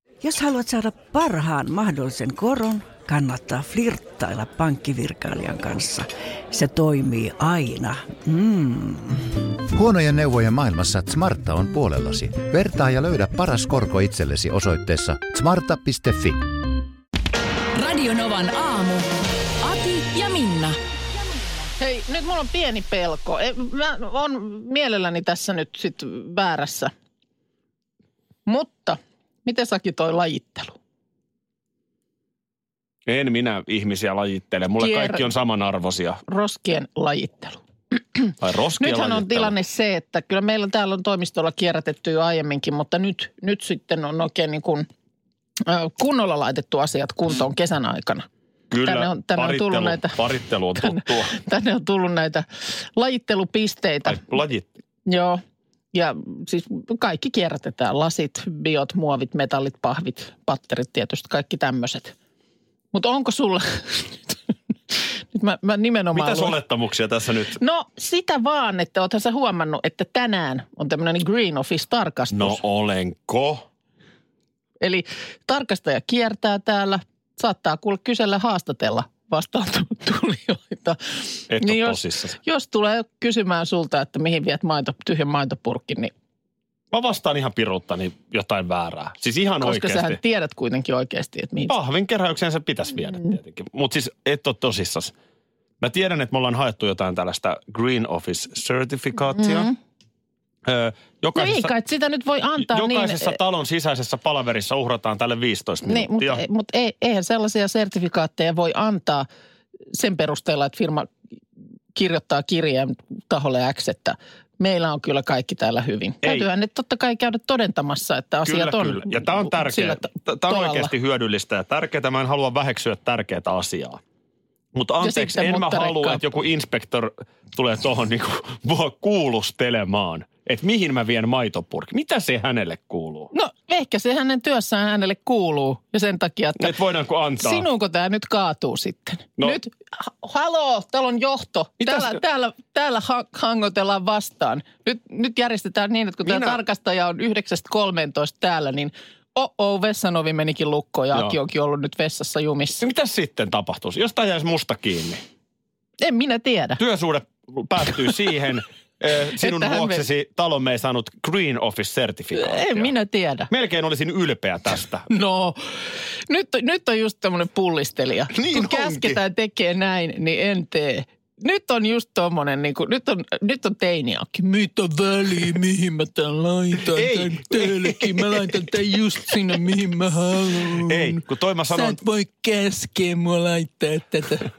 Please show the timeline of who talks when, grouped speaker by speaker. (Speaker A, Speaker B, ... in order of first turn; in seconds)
Speaker A: 0.2-9.3
Speaker B: 9.7-16.4
Speaker C: 17.8-19.1, 19.6-20.8
Speaker D: 21.8-26.9, 28.4-30.8, 34.8-35.2, 36.3-37.6, 38.1-44.9, 45.6-48.2, 48.8-50.2, 50.7-54.4, 55.1-55.4, 55.9-62.1, 62.9-64.3, 64.9-66.5, 67.6-72.6, 74.8-86.1, 89.6-91.7, 99.4-99.8, 101.3-103.4, 105.9-109.3, 109.9-111.1, 111.9-120.9, 125.0-126.2, 133.3-136.7, 137.4-152.8, 156.0-156.8, 159.4-160.0, 162.3-163.5, 165.1-165.6, 166.3-184.5
Speaker E: 33.1-36.2, 38.4-39.5, 48.7-51.3, 54.1-54.7, 66.1-67.6, 72.3-73.6, 81.5-82.4, 86.9-90.2, 91.7-95.1, 95.8-99.7, 100.7-101.7, 102.6-106.4, 118.4-124.0, 124.7-133.3, 136.6-137.7, 141.8-142.2, 146.2-146.6, 152.8-155.2, 156.8-162.9, 163.5-165.1, 168.3-169.2, 176.9-178.3, 180.9-182.0